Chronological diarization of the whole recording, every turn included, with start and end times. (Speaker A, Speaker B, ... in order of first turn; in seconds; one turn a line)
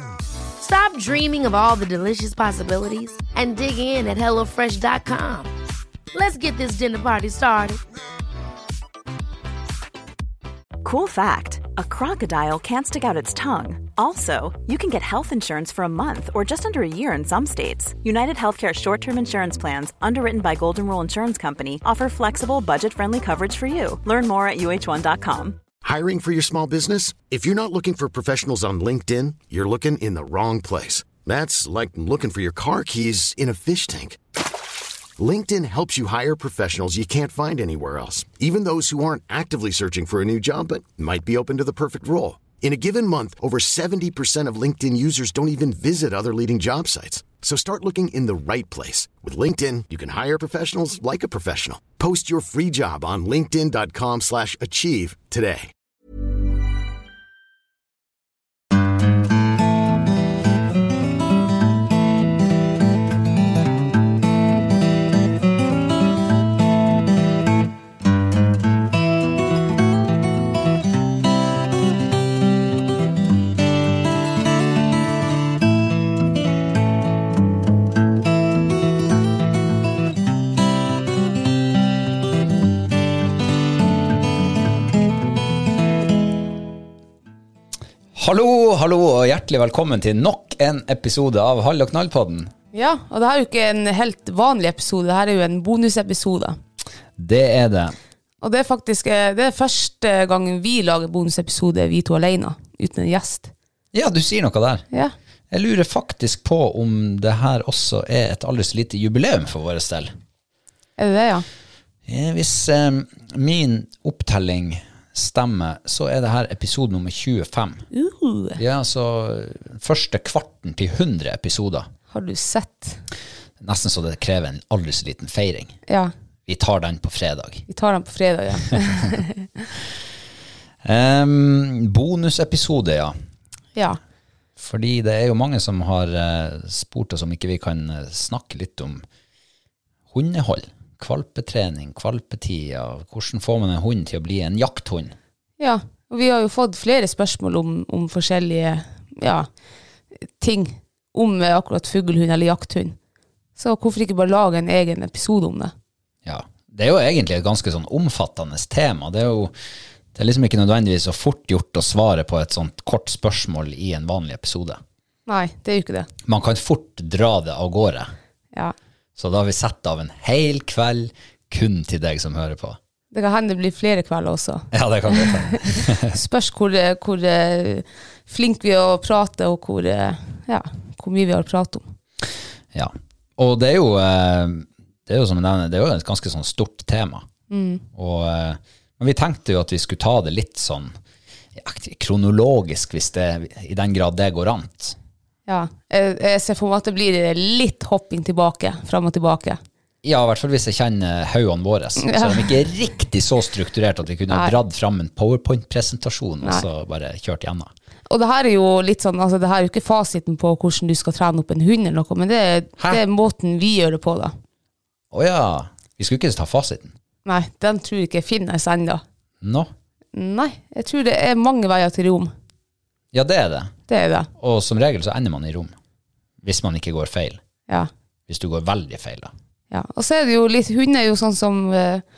Speaker A: 0.6-5.5
Speaker A: 6.1-7.8
Speaker B: 10.8-25.6
Speaker C: 25.8-34.2
Speaker C: 35.2-55.7
Speaker D: 88.2-92.5
Speaker E: 92.7-96.6
Speaker D: 97.2-98.0
Speaker E: 98.4-103.5
Speaker D: 103.9-104.8
Speaker D: 105.5-110.1
Speaker E: 111.0-111.4
Speaker D: 112.1-117.9
Speaker E: 117.9-118.6
Speaker D: 118.6-121.9
Speaker E: 122.1-123.0
Speaker D: 123.6-125.7
Speaker D: 126.5-127.7
Speaker E: 127.7-129.5
Speaker D: 130.8-133.1
Speaker D: 134.6-139.0
Speaker D: 140.1-145.1
Speaker E: 145.6-149.5
Speaker E: 150.4-153.0
Speaker E: 153.6-155.7
Speaker D: 156.2-159.5
Speaker D: 160.2-164.8
Speaker E: 165.2-166.1
Speaker D: 166.2-168.1
Speaker D: 169.2-172.8
Speaker E: 173.1-175.4
Speaker D: 174.7-176.2
Speaker E: 176.1-181.9
Speaker D: 182.7-187.2
Speaker E: 187.5-187.8
Speaker D: 187.9-190.9
Speaker D: 191.6-195.0
Speaker E: 195.5-199.6
Speaker D: 200.0-207.7
Speaker E: 202.1-202.3
Speaker E: 208.1-214.3
Speaker D: 215.1-216.9
Speaker E: 217.2-219.0
Speaker D: 219.4-219.7
Speaker E: 220.1-222.3
Speaker D: 223.1-223.7
Speaker E: 223.9-224.3
Speaker D: 224.4-225.7
Speaker D: 226.4-227.4
Speaker D: 228.3-229.3
Speaker E: 229.7-232.0